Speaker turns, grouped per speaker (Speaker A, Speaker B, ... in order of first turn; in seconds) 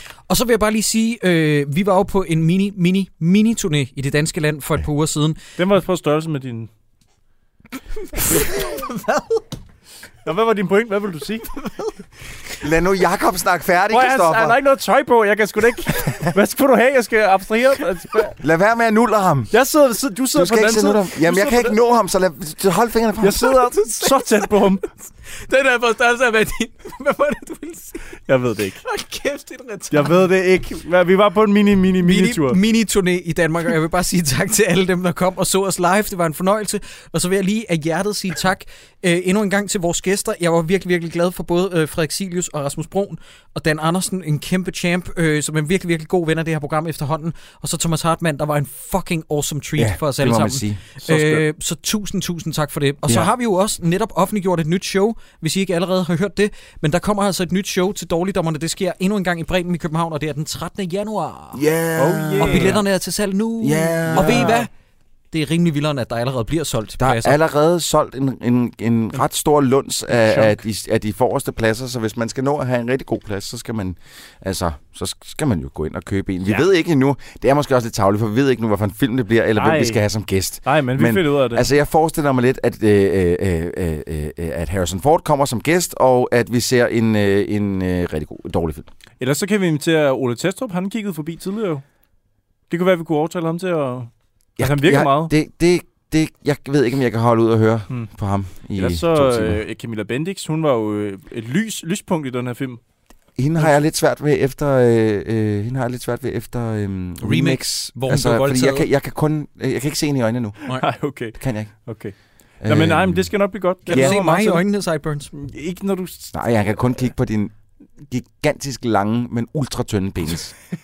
Speaker A: 0.3-5.4, 8.2-9.4, 23.8-24.3, 25.3-28.2, 28.8-30.1, 32.0-61.6, 62.4-64.7, 65.3-67.3, 107.2-108.9, 113.8-115.3
Speaker B: 5.6-6.7, 10.2-11.7, 13.9-18.4, 19.5-21.8, 23.2-24.9, 28.2-28.8, 29.9-32.6, 51.0-51.4, 62.0-62.8, 64.1-64.6, 70.1-70.6, 79.5-80.0, 80.6-81.7, 89.2-91.8, 92.7-94.1, 94.6-95.3, 98.7-102.8, 110.6-114.7, 115.3-116.3
Speaker C: 12.6-14.6, 18.4-19.5, 20.3-23.5, 49.8-50.8, 61.5-62.8, 63.6-64.7, 67.0-88.9, 94.6-99.6, 103.4-110.6, 111.4-111.7, 112.6-113.3, 113.9-114.2, 116.3-117.5, 118.1-120.5